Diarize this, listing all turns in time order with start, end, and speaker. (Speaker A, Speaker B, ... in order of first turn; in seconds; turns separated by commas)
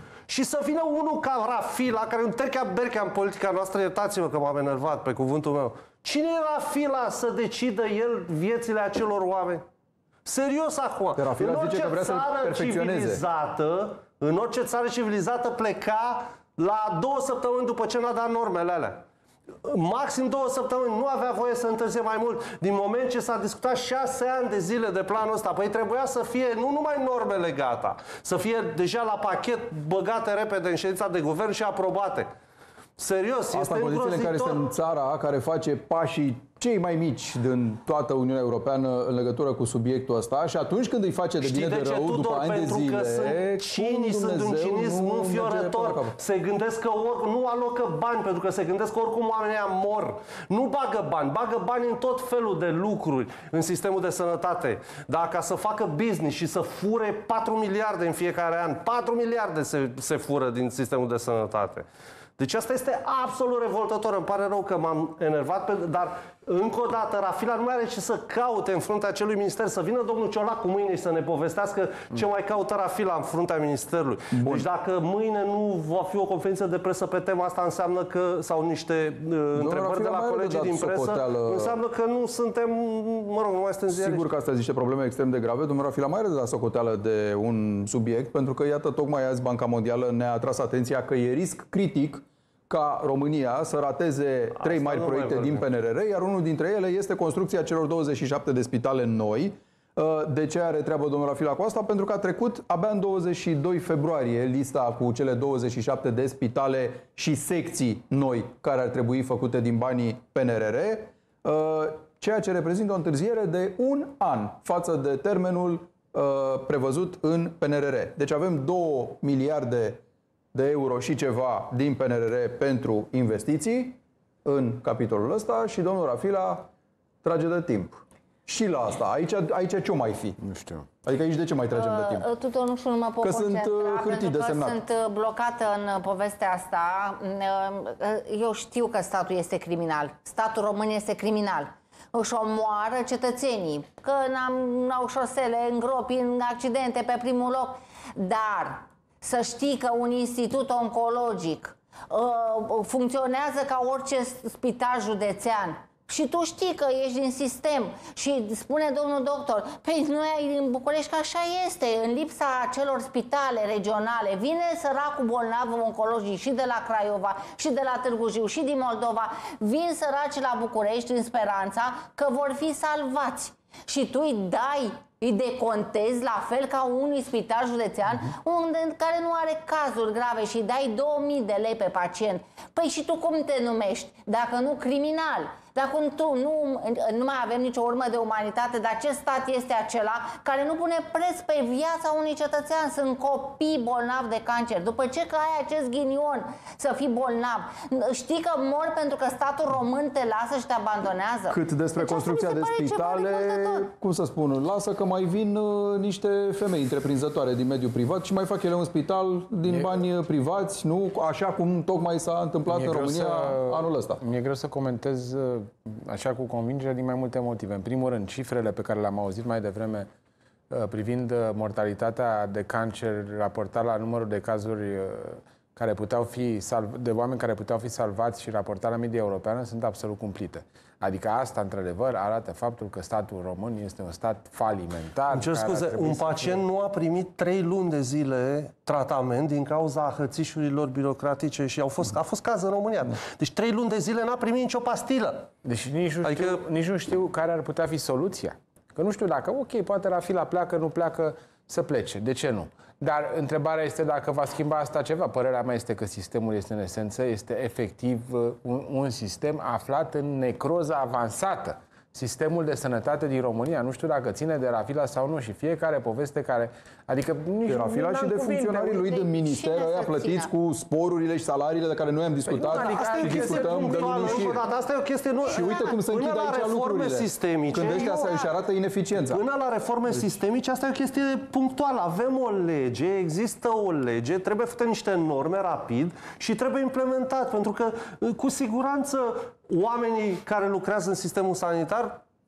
Speaker A: 0.3-9.6, Speaker A: 10.2-19.0, Speaker B: 11.2-13.2, Speaker A: 19.6-32.3, Speaker A: 33.0-34.6, Speaker B: 33.5-46.2, Speaker A: 41.4-61.9, Speaker A: 62.4-84.3, Speaker B: 74.3-74.7, Speaker B: 79.5-81.8, Speaker B: 83.9-120.0, Speaker A: 94.6-95.6, Speaker B: 120.5-126.7, Speaker B: 127.2-130.4, Speaker C: 130.4-130.9, Speaker B: 131.0-132.3, Speaker D: 131.8-203.9, Speaker B: 133.2-134.8, Speaker B: 201.5-214.2, Speaker C: 209.7-210.0, Speaker C: 212.7-220.1, Speaker C: 220.7-236.6, Speaker A: 235.3-245.5, Speaker C: 245.6-269.3, Speaker A: 246.2-246.6, Speaker B: 267.7-274.6, Speaker D: 269.3-270.5, Speaker C: 272.5-274.6, Speaker A: 272.7-278.2, Speaker D: 275.5-275.9, Speaker B: 275.5-279.4, Speaker D: 278.0-278.5, Speaker A: 279.2-292.2